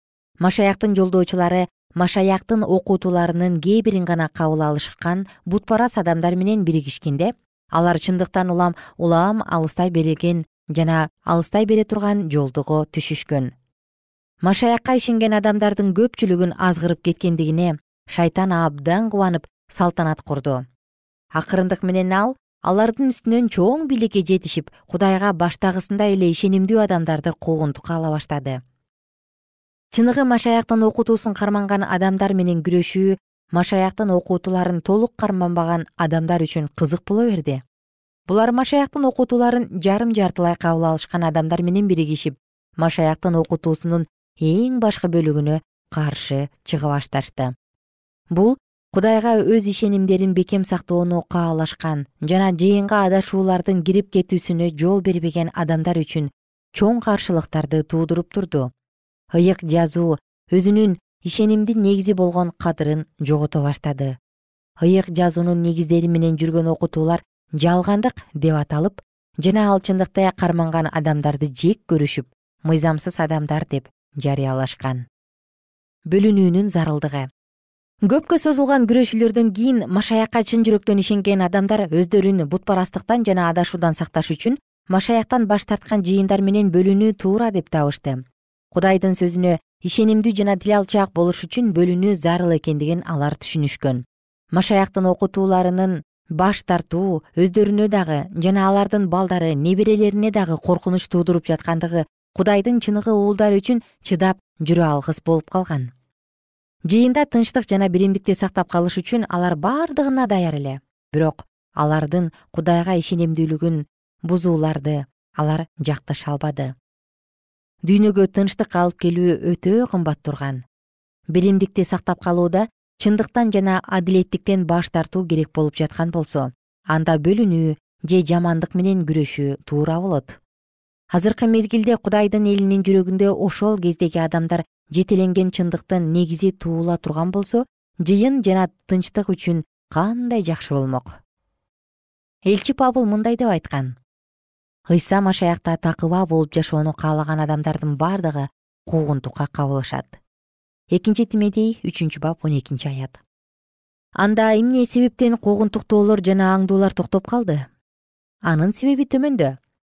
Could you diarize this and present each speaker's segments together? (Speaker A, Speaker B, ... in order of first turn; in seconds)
Speaker A: 0.4-13.5, 14.4-20.6, 21.4-28.6, 29.9-37.6, 38.3-47.5, 48.3-58.7, 59.3-64.1, 64.8-75.0, 76.1-77.3, 78.1-94.0, 94.5-105.9, 106.9-116.7, 117.9-120.6, 121.3-130.4, 131.1-141.2, 142.4-144.0, 144.9-150.2, 150.9-153.2, 154.2-157.7, 158.4-159.6